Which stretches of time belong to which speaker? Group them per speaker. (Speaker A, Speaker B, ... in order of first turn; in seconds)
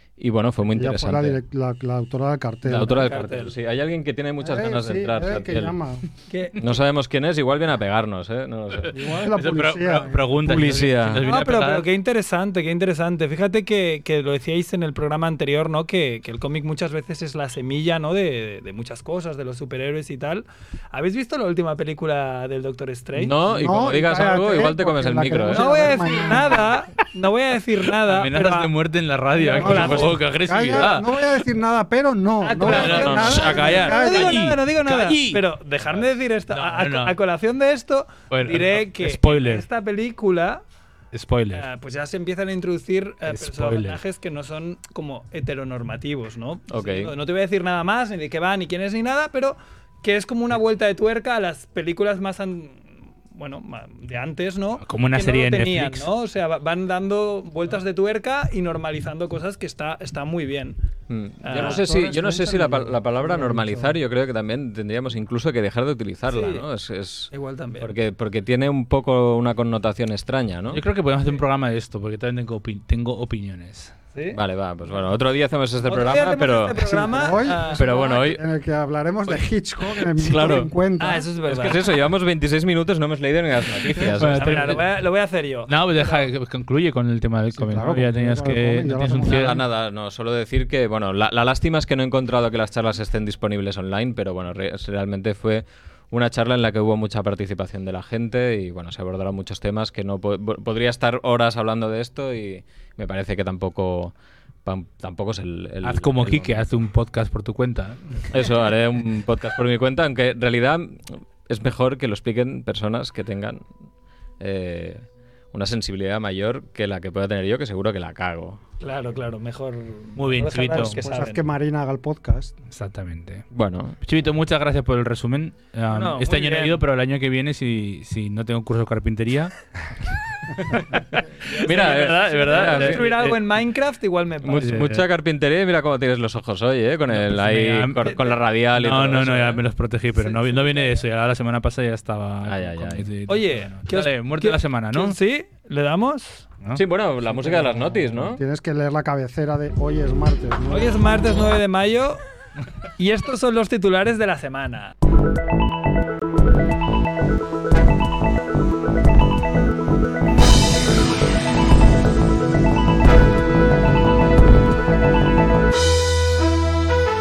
Speaker A: 0.2-1.4, 2.6-5.8, 6.6-9.0, 10.4-11.3, 23.2-26.1, 29.6-30.2, 32.7-33.6, 46.7-47.1, 61.1-70.8, 74.3-77.0, 77.8-78.4, 80.0-80.7, 81.5-84.8, 89.2-106.9, 108.3-113.6, 114.4-118.6, 123.5-124.0, 131.5-133.2, 134.4-139.6, 142.5-143.1, 146.8-148.4
Speaker B: 0.7-3.1, 4.4-6.0, 8.9-10.3, 23.4-26.7, 29.6-34.5, 61.5-64.0, 76.8-81.3, 87.5-89.6, 121.0-122.5, 147.3-151.1
Speaker C: 3.0-3.5, 6.3-6.6, 11.2-23.4, 25.5-28.7, 29.3-30.2, 32.4-40.6, 41.5-60.8, 61.4-61.8, 66.3-66.7, 67.3-67.9, 74.1-74.4, 75.8-78.0, 81.0-81.8, 84.3-86.3, 118.8-121.4, 125.9-126.8, 131.4-134.8, 140.2-141.0, 143.3-146.5, 150.7-152.2, 153.0-154.9
Speaker D: 8.9-11.9, 28.1-31.1, 32.7-37.1, 38.3-39.6, 41.1-41.7, 43.3-44.0, 54.8-56.1, 70.7-73.9, 83.9-84.8, 85.7-89.6, 105.8-108.3, 120.2-121.0, 122.7-123.5, 124.0-129.5, 130.6-131.0, 131.6-133.4, 134.6-135.1, 137.1-145.2